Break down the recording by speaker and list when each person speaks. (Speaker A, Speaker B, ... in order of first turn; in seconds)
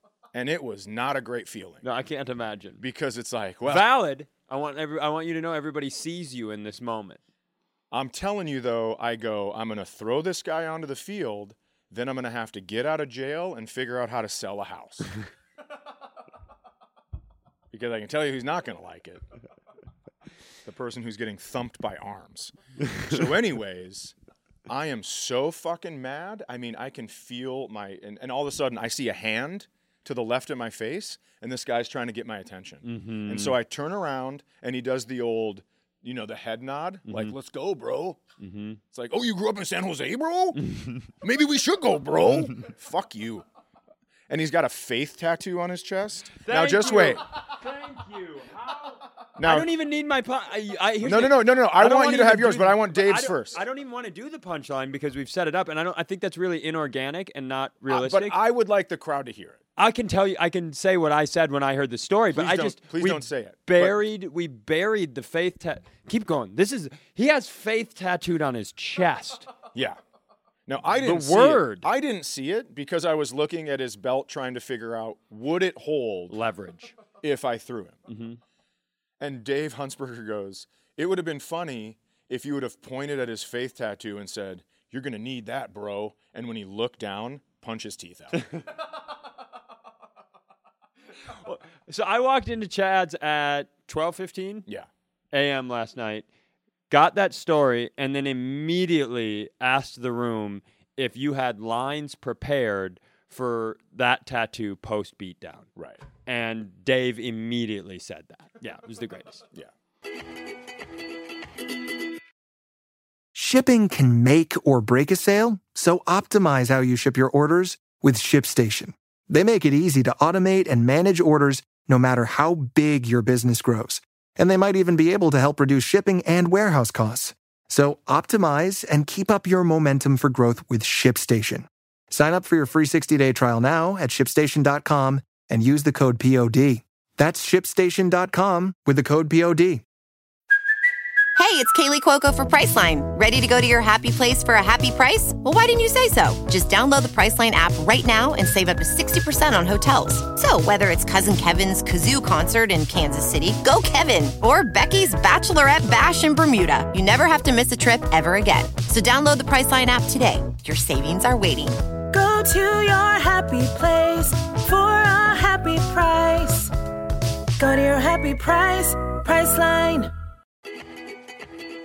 Speaker A: 0.3-1.9, 2.8-3.9, 7.9-15.1, 17.7-19.2, 20.6-24.1, 24.7-38.2, 38.9-40.7, 41.2-43.5, 44.3-47.2, 49.4-49.7, 51.0-53.6, 57.9-59.6, 62.3-64.0, 70.7-76.4, 77.2-78.0, 79.2-88.5, 105.8-106.0
Speaker B: 1.8-2.8, 3.7-7.2, 32.8-33.6, 37.1-37.4, 38.4-38.8, 40.6-41.1, 46.4-58.4, 59.8-69.5, 71.0-71.9, 76.3-77.0, 78.1-78.4, 91.3-94.7, 95.3-96.3, 96.9-105.7, 106.2-109.4
Speaker C: 113.3-139.8
Speaker D: 141.4-161.8
Speaker E: 162.1-166.7, 167.6-170.1